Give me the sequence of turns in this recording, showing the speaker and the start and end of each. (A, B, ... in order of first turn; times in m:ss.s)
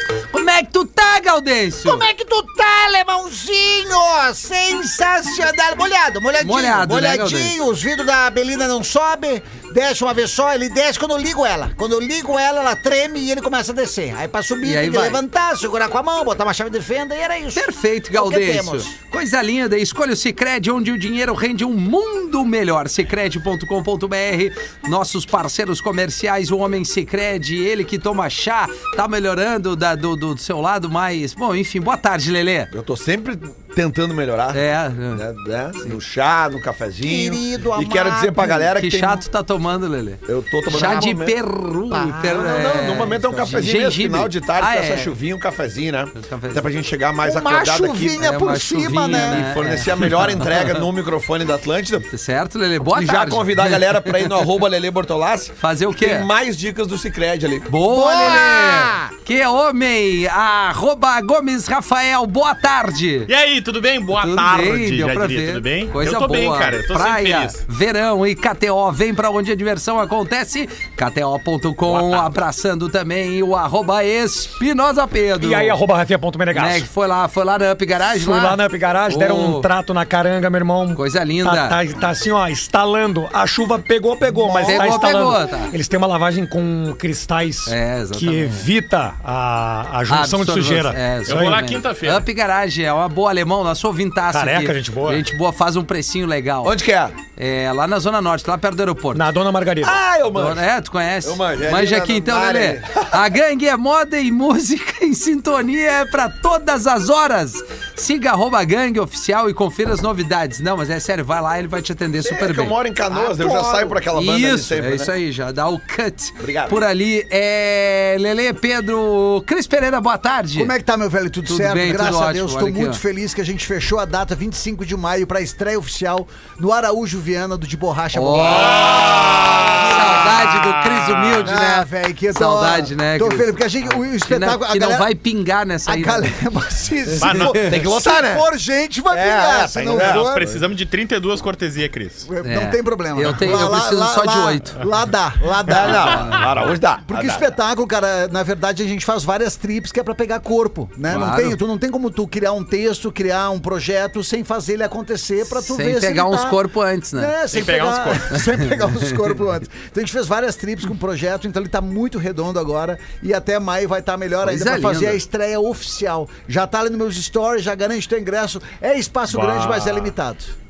0:00.3-0:02.0 A
0:01.8-0:18.9 B
0:06.4-0:07.5 A
0:14.6-0:15.2 A
0:17.5-0:32.7 A
0:32.7-0:39.2 C
0:34.5-0:35.2 A
0:37.0-0:38.7 B
0:38.7-0:45.1 A
0:40.3-0:41.4 C
0:40.7-0:41.1 B
0:41.9-0:43.7 B
0:42.3-0:48.2 C
0:46.1-0:46.7 A
0:47.2-0:49.5 B
0:48.2-0:50.8 A
0:49.1-0:52.1 C
0:52.1-0:54.5 A
0:52.9-0:57.7 C
0:55.6-0:56.3 A
0:57.7-1:03.3 A
0:57.8-0:59.1 B
1:03.3-1:07.6 D
1:04.2-1:15.8 A
1:11.9-1:12.4 D
1:15.4-1:16.9 E
1:16.5-1:19.7 A
1:18.1-1:31.6 E
1:21.0-1:21.8 A
1:24.4-1:25.1 C
1:24.6-1:25.7 A
1:27.6-1:28.7 A
1:30.1-1:36.8 A
1:31.2-1:32.2 D
1:34.3-1:35.2 E
1:36.6-1:37.1 C
1:37.4-1:39.3 A
1:39.1-1:40.0 E
1:39.8-1:40.6 C
1:40.3-1:52.8 A
1:41.2-1:43.2 C
1:52.2-1:55.1 C
1:53.1-1:54.0 B
1:54.1-2:00.7 A
1:56.4-1:56.8 C
2:00.5-2:10.6 B
2:01.4-2:03.0 A
2:08.1-2:16.4 A
2:08.6-2:11.5 D
2:11.4-2:15.1 B
2:15.8-2:20.4 B
2:17.1-2:17.8 A
2:17.2-2:17.6 D
2:17.4-2:18.5 C
2:19.1-2:20.6 C
2:19.9-2:22.3 D
2:22.3-2:26.5 B
2:22.4-2:24.8 A
2:25.6-2:27.5 C
2:27.1-2:50.5 B
2:31.1-2:31.6 A
2:35.6-2:37.3 A
2:37.5-2:38.4 D
2:44.4-2:45.2 A
2:49.3-2:50.1 D